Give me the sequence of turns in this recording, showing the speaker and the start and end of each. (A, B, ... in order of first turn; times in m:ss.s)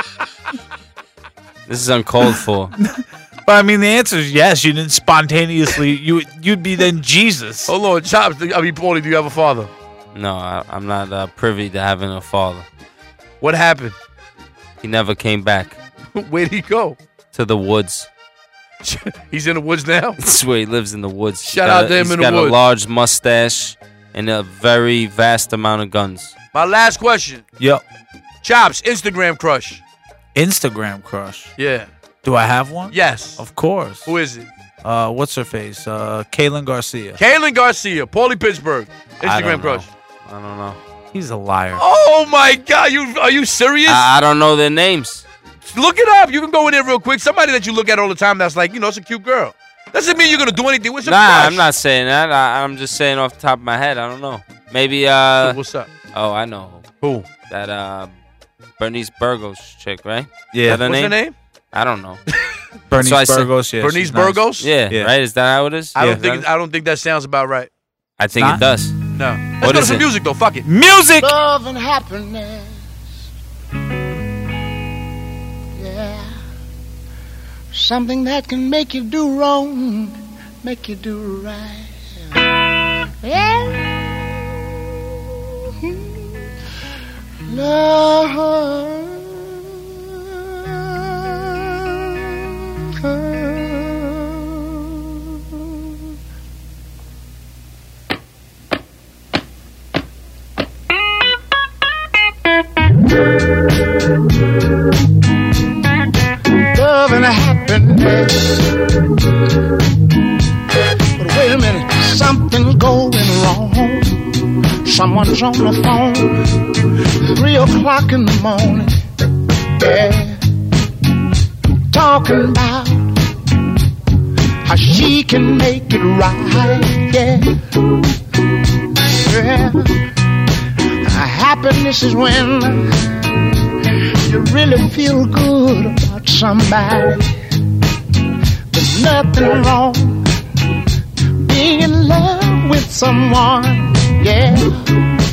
0:01.7-0:02.7 A
0:02.7-0:07.7 B
0:07.7-0:09.7 C
0:10.1-0:12.7 A
0:13.4-0:14.0 C
0:14.8-0:15.8 A
0:16.2-0:17.0 C
0:17.3-0:18.1 A
0:18.8-0:20.2 C
0:20.2-0:26.3 A
0:21.4-0:22.6 C
0:26.5-0:27.4 C
0:28.4-0:29.8 C
0:30.4-0:31.5 B
0:31.6-0:31.9 C
0:32.2-0:34.1 B
0:32.9-0:33.4 C
0:34.0-0:34.5 C
0:34.8-0:37.2 B
0:37.2-0:39.9 C
0:39.2-0:40.8 A
0:41.1-0:41.8 B
0:41.8-0:44.1 C
0:43.9-0:45.2 A
0:45.7-0:51.6 C
0:51.0-0:55.6 A
0:55.4-0:55.9 C
0:56.1-0:56.9 A
0:57.0-0:57.3 C
0:57.5-0:58.2 A
0:58.8-1:01.2 A
1:00.5-1:00.9 B
1:00.7-1:01.4 C
1:01.7-1:02.2 A
1:02.9-1:05.1 B
1:03.0-1:03.5 A
1:03.8-1:04.7 C
1:04.6-1:06.4 A
1:06.0-1:07.7 C
1:06.0-1:06.2 B
1:08.2-1:09.0 A
1:08.4-1:08.6 B
1:09.1-1:10.7 C
1:09.6-1:10.0 A
1:10.6-1:11.3 B
1:11.2-1:12.8 D
1:15.8-1:16.4 D
1:17.7-1:22.1 D
1:23.2-1:23.9 D
1:27.5-1:29.4 D
1:30.8-1:31.7 D
1:33.0-1:35.0 D
1:46.7-1:48.7 D
1:51.2-1:54.3 D
1:54.8-1:56.5 D
1:57.3-1:59.0 D
1:59.8-2:00.4 D
2:01.9-2:03.1 D
2:04.6-2:07.6 D
2:09.1-2:10.0 D
2:11.0-2:13.2 D
2:14.2-2:17.3 D
2:18.7-2:20.2 D
2:21.4-2:24.9 D